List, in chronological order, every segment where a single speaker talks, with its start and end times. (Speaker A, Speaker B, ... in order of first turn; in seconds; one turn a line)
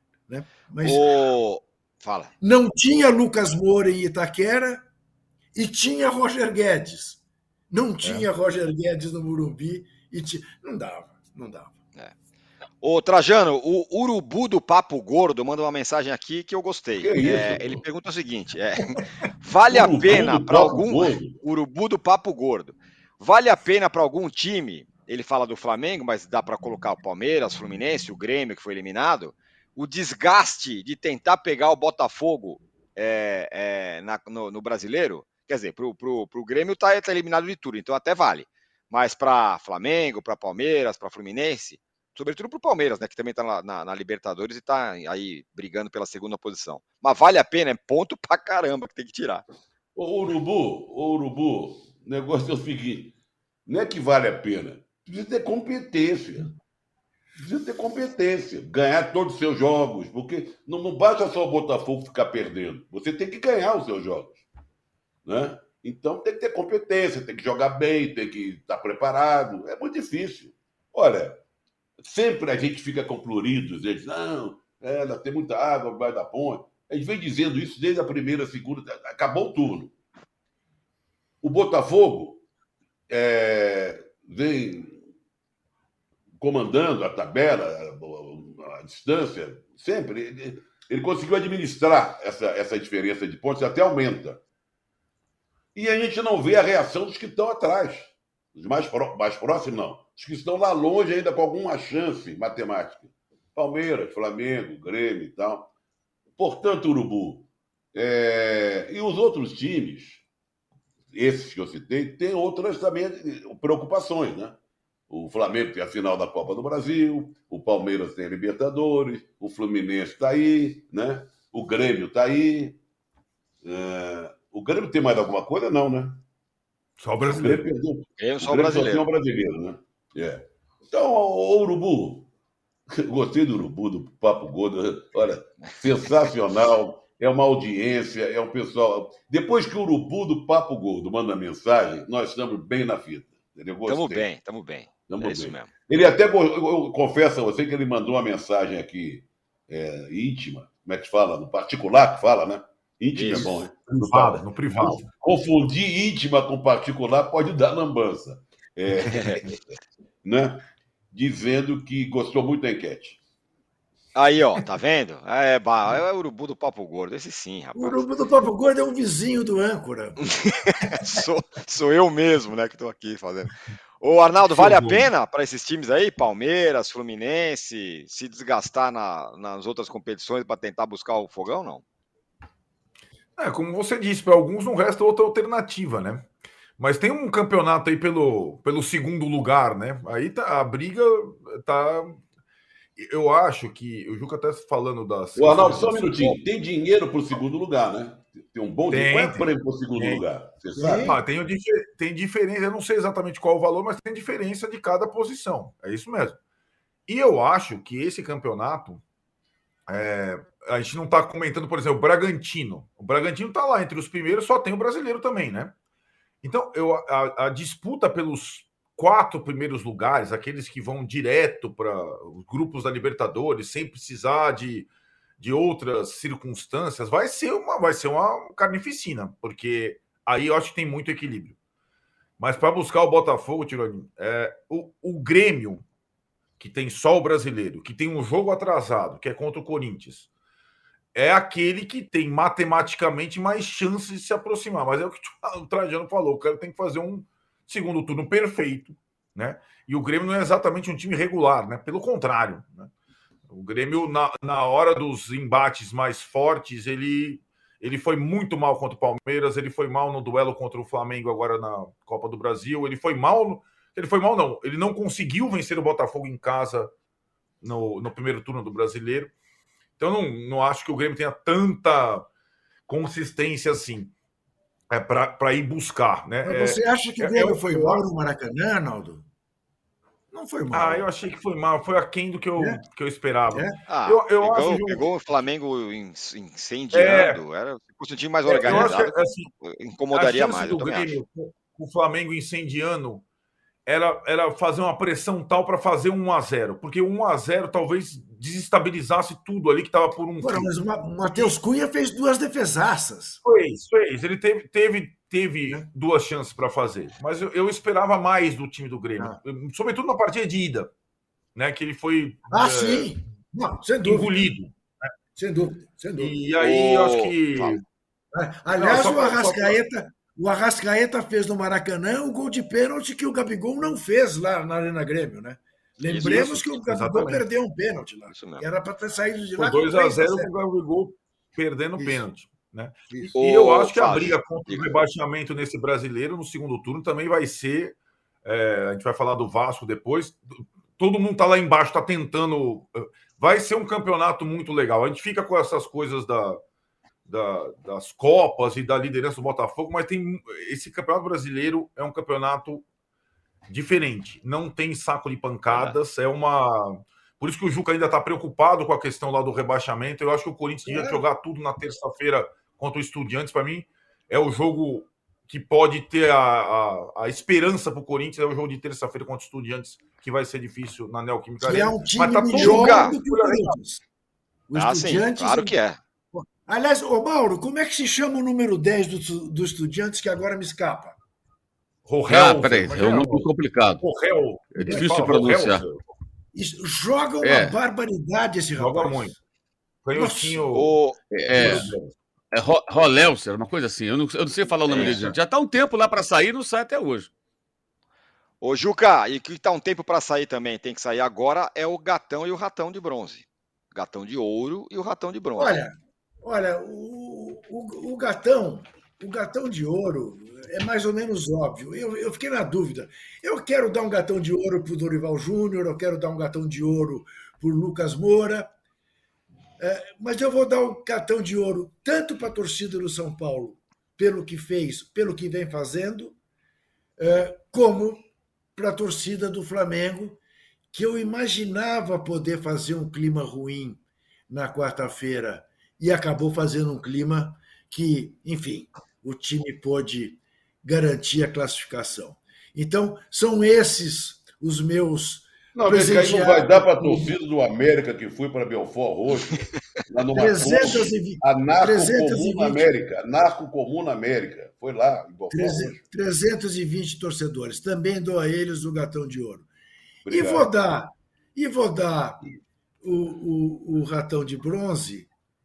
Speaker A: 0.3-1.1
Speaker B: 0.8-2.3
Speaker A: 2.4-4.9
Speaker A: 5.5-11.8
Speaker B: 12.8-49.4
Speaker C: 17.0-17.8
Speaker C: 19.7-21.4
Speaker C: 50.0-53.1
Speaker C: 53.7-56.5
Speaker C: 57.4-64.4
Speaker C: 65.2-71.4
Speaker C: 72.0-79.9
Speaker C: 81.4-82.4
Speaker C: 83.1-85.0
Speaker C: 86.4-94.4
Speaker C: 95.8-105.7
Speaker C: 106.4-110.2
Speaker C: 111.1-114.6
Speaker C: 115.1-122.8
Speaker C: 123.6-126.2
Speaker D: 127.0-127.7
Speaker C: 127.2-132.3
Speaker B: 128.2-129.1
Speaker C: 132.9-144.3
Speaker B: 143.9-145.7
Speaker C: 145.1-163.2
Speaker B: 153.1-153.6
Speaker D: 153.3-155.1
Speaker B: 159.1-159.4
Speaker B: 164.2-168.0
Speaker A: 167.8-170.3
Speaker B: 170.2-181.8
Speaker D: 174.5-175.1
Speaker D: 183.4-192.2
Speaker D: 193.0-196.4
Speaker C: 195.4-201.2
Speaker D: 198.9-200.2
Speaker A: 200.8-201.2
Speaker D: 200.8-206.4
Speaker D: 207.1-209.0
Speaker D: 209.9-215.8
Speaker D: 216.4-231.6
Speaker D: 232.4-235.8
Speaker D: 236.6-240.3
Speaker D: 241.1-252.9
Speaker D: 253.5-266.9
Speaker D: 267.6-269.3
Speaker D: 270.0-272.3
Speaker D: 272.9-274.1
Speaker D: 274.9-278.0
Speaker A: 276.4-279.3
Speaker A: 280.3-281.1
Speaker D: 280.7-285.1
Speaker A: 282.6-282.8
Speaker B: 283.9-291.2
Speaker D: 286.9-287.4
Speaker D: 288.5-289.5
Speaker A: 288.5-288.9
Speaker D: 290.1-293.2
Speaker D: 293.9-300.7
Speaker A: 300.4-303.4
Speaker D: 303.4-310.9
Speaker D: 311.6-313.1
Speaker A: 312.5-314.5
Speaker D: 314.0-314.7
Speaker A: 315.4-316.4
Speaker D: 316.2-317.8
Speaker B: 316.6-317.8
Speaker A: 318.3-330.5
Speaker D: 318.7-319.8
Speaker D: 326.1-327.4
Speaker B: 328.3-328.6
Speaker D: 329.6-340.4
Speaker A: 332.0-332.2
Speaker B: 333.4-335.0
Speaker D: 341.0-346.6
Speaker D: 347.3-352.9
Speaker D: 353.7-373.8
Speaker E: 355.7-356.0
Speaker A: 360.9-361.2
Speaker A: 371.6-374.0
Speaker B: 372.6-373.1
Speaker A: 374.7-375.8
Speaker B: 374.8-376.0
Speaker A: 376.3-381.2
Speaker D: 382.1-383.5
Speaker E: 382.3-384.0
Speaker D: 384.0-386.0
Speaker E: 384.8-385.9
Speaker A: 384.8-385.1
Speaker A: 386.5-389.4
Speaker E: 387.4-387.8
Speaker D: 388.8-389.4
Speaker D: 390.0-391.0
Speaker A: 390.1-390.7
Speaker B: 390.7-391.2
Speaker E: 391.3-391.9
Speaker D: 391.5-392.1
Speaker E: 392.5-397.3
Speaker B: 394.9-395.2
Speaker D: 395.0-395.3
Speaker B: 398.6-405.8
Speaker A: 405.6-418.7
Speaker A: 419.8-426.4
Speaker A: 427.2-430.4
Speaker A: 430.9-447.3
Speaker C: 445.7-456.0
Speaker A: 450.4-452.9
Speaker A: 455.5-459.7
Speaker C: 460.2-460.7
Speaker A: 460.3-462.4
Speaker A: 463.0-465.3